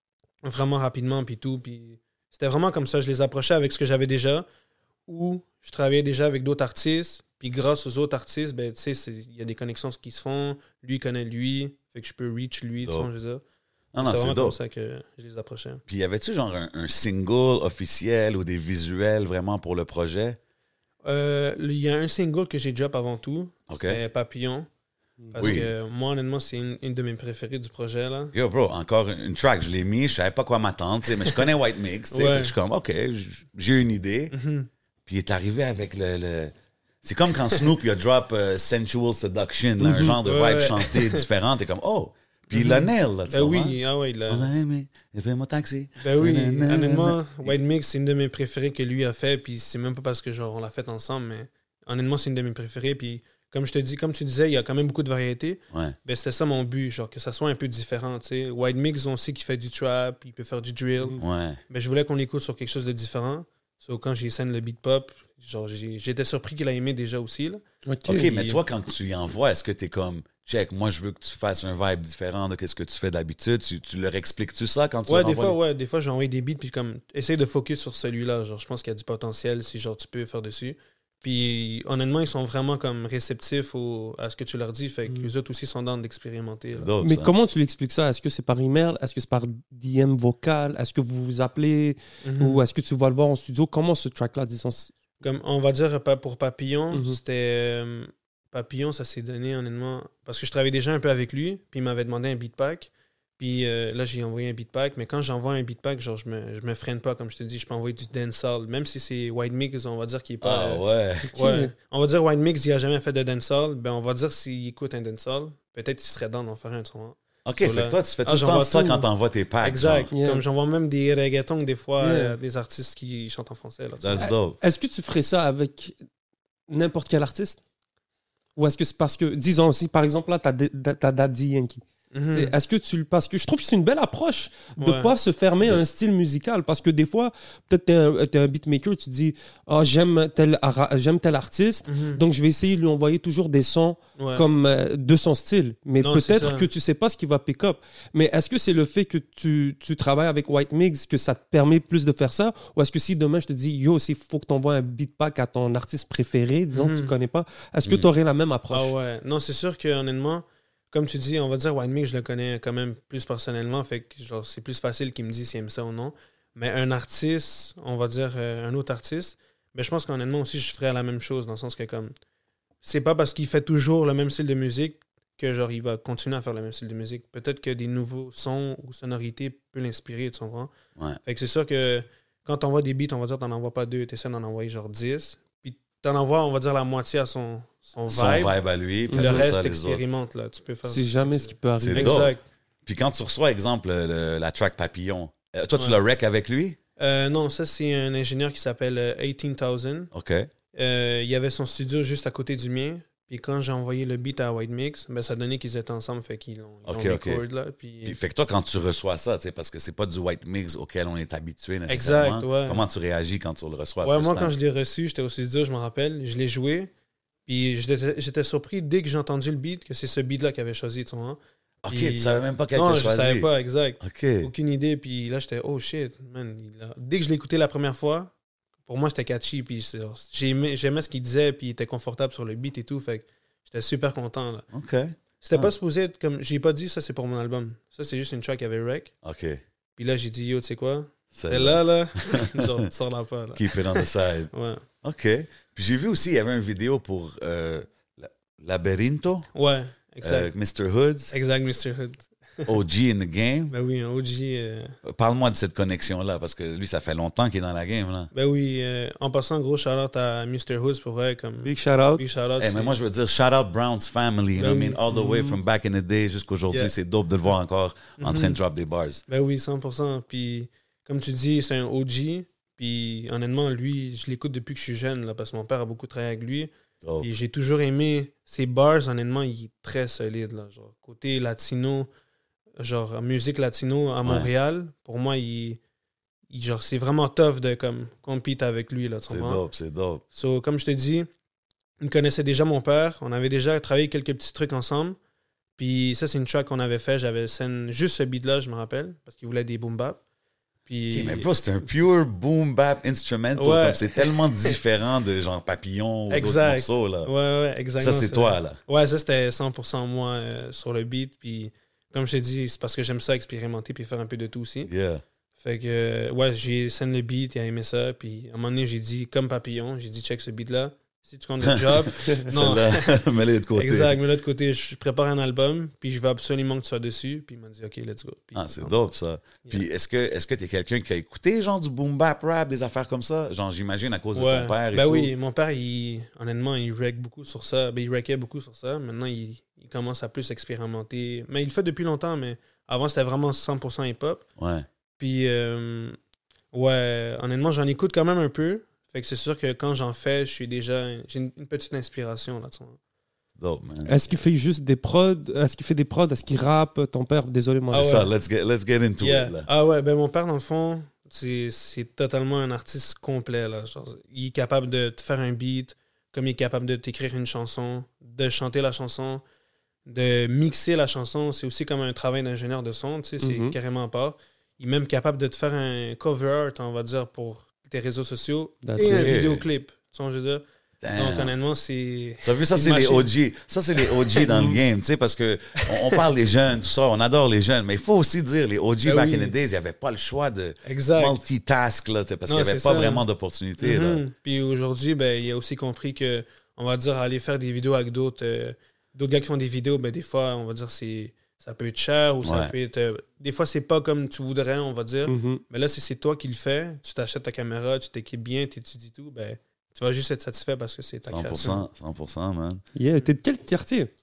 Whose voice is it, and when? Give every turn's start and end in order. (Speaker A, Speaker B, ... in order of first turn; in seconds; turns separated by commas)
Speaker A: 0.4-4.5, Speaker A: 5.1-13.4, Speaker B: 13.9-14.6, Speaker A: 14.0-15.8, Speaker B: 15.9-20.4, Speaker A: 21.0-24.7, Speaker B: 23.7-24.0, Speaker C: 25.2-25.6, Speaker A: 25.3-28.3, Speaker B: 25.4-25.7, Speaker B: 28.3-34.3, Speaker A: 32.1-32.5, Speaker A: 34.3-34.7, Speaker B: 35.1-43.8, Speaker C: 39.8-40.2, Speaker A: 40.2-41.3, Speaker A: 42.5-44.5, Speaker B: 44.3-47.5, Speaker A: 46.0-67.6, Speaker B: 61.2-61.6, Speaker C: 67.9-68.3, Speaker B: 68.1-75.6, Speaker A: 68.2-68.6, Speaker A: 75.1-86.9, Speaker B: 86.8-87.3, Speaker C: 87.0-94.9, Speaker A: 92.2-92.6, Speaker A: 95.2-110.8, Speaker C: 96.9-97.2, Speaker B: 110.4-111.3, Speaker A: 111.3-119.1, Speaker C: 111.3-111.7, Speaker B: 117.5-120.1, Speaker A: 119.6-124.3, Speaker C: 120.1-120.4, Speaker C: 122.0-122.4, Speaker B: 124.0-124.6, Speaker C: 124.2-126.0, Speaker C: 126.7-127.6, Speaker C: 128.6-158.9, Speaker A: 132.1-132.6, Speaker A: 134.8-135.2, Speaker A: 141.9-142.2, Speaker A: 144.2-144.4, Speaker A: 146.0-146.7, Speaker A: 156.7-157.1, Speaker A: 158.7-172.1, Speaker A: 172.8-180.7, Speaker A: 181.2-188.6, Speaker B: 188.1-190.0, Speaker C: 189.1-189.5, Speaker A: 189.1-192.4, Speaker C: 190.9-192.2, Speaker B: 191.8-192.3, Speaker B: 192.9-196.8, Speaker A: 197.0-200.1, Speaker B: 200.1-200.5, Speaker A: 200.7-208.2, Speaker B: 206.9-207.4, Speaker B: 208.0-214.6, Speaker A: 211.9-212.8, Speaker A: 214.0-216.9, Speaker A: 217.5-228.3, Speaker B: 221.8-223.5, Speaker B: 224.0-224.5, Speaker A: 228.8-234.7, Speaker B: 234.7-235.7, Speaker A: 235.4-239.1, Speaker B: 239.2-239.6, Speaker A: 240.0-244.8, Speaker B: 241.3-242.9, Speaker B: 243.6-244.5, Speaker B: 245.0-249.5, Speaker A: 249.6-250.5, Speaker B: 250.2-251.3, Speaker A: 251.3-252.7, Speaker B: 252.7-253.8, Speaker A: 253.7-255.0, Speaker B: 255.0-258.3, Speaker A: 258.3-263.0, Speaker C: 261.6-262.2, Speaker B: 262.6-269.2, Speaker A: 264.6-265.0, Speaker C: 265.2-265.4, Speaker A: 268.2-268.6, Speaker A: 269.3-282.1, Speaker B: 277.0-277.3, Speaker A: 282.8-285.8, Speaker A: 286.5-289.6, Speaker B: 289.3-290.2, Speaker A: 290.3-291.3, Speaker A: 292.0-295.2, Speaker A: 295.8-300.2, Speaker A: 300.9-301.5, Speaker B: 301.1-307.3, Speaker A: 303.6-304.8, Speaker A: 306.3-314.9, Speaker B: 308.0-308.8, Speaker B: 314.9-315.2, Speaker A: 315.6-323.2, Speaker B: 321.6-324.2, Speaker A: 323.8-328.9, Speaker B: 328.6-335.3, Speaker A: 334.4-344.4, Speaker B: 344.6-344.9, Speaker A: 345.2-346.2, Speaker A: 346.7-353.0, Speaker B: 353.6-354.1, Speaker C: 354.1-358.1, Speaker A: 357.9-358.3, Speaker B: 357.9-359.7, Speaker A: 359.2-369.4, Speaker A: 370.1-383.3, Speaker C: 373.4-373.8, Speaker C: 378.8-379.4, Speaker B: 379.0-379.7, Speaker B: 381.0-381.5, Speaker B: 382.4-394.2, Speaker A: 384.0-384.5, Speaker C: 384.4-384.8, Speaker A: 385.8-386.2, Speaker A: 389.0-389.6, Speaker A: 390.9-391.4, Speaker A: 392.5-393.2, Speaker A: 393.8-411.9, Speaker B: 402.4-402.7, Speaker C: 405.3-405.6, Speaker B: 411.3-412.8, Speaker C: 413.0-414.1